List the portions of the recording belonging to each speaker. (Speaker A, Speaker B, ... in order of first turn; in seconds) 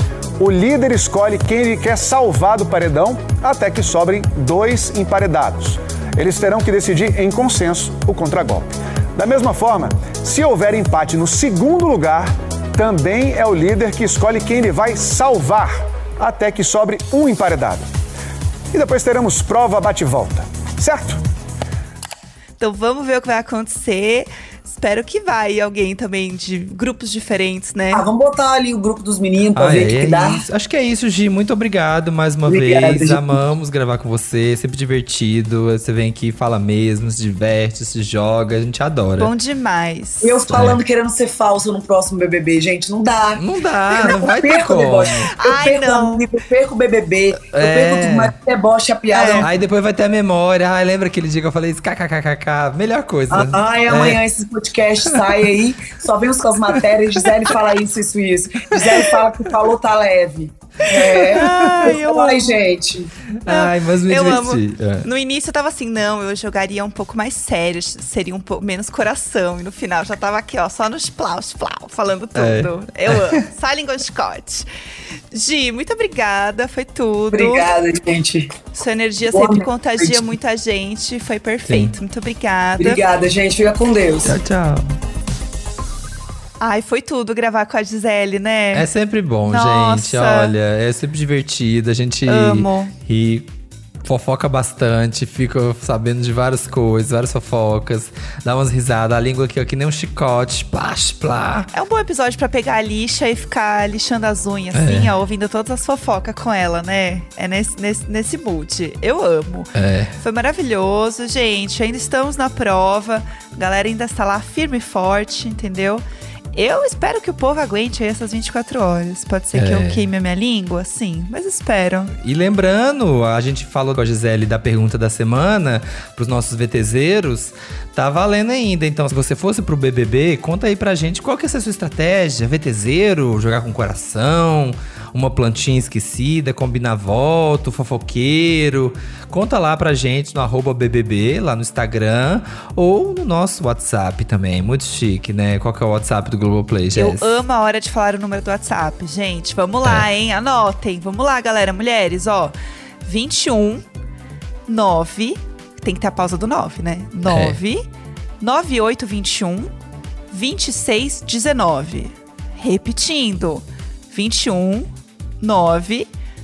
Speaker A: 0.4-17.9, 18.7-21.2
Speaker B: 22.6-28.0, 39.2-40.4, 43.9-44.5, 45.0-46.2, 49.1-49.5, 60.8-62.5, 63.5-74.7, 75.3-77.7, 78.7-83.0, 86.6-88.8, 89.5-90.5, 92.2-92.9, 101.7-122.1, 146.9-153.8, 154.7-157.8, 158.4-159.7, 160.3-164.9, 165.4-166.1
Speaker C: 27.9-30.4, 32.5-33.4, 40.2-49.5, 53.3-63.1, 77.3-78.5, 79.3-80.3, 82.8-84.3
Speaker D: 29.6-39.3, 40.5-40.8, 43.4-45.3, 47.4-48.3, 49.4-54.2, 56.7-57.2, 61.3-62.0, 63.4-65.1, 72.3-73.4, 81.7-82.0, 84.2-84.9, 88.7-93.5, 94.0-101.7, 104.7-105.1, 109.7-110.1, 119.5-120.1, 122.2-147.4, 157.2-157.6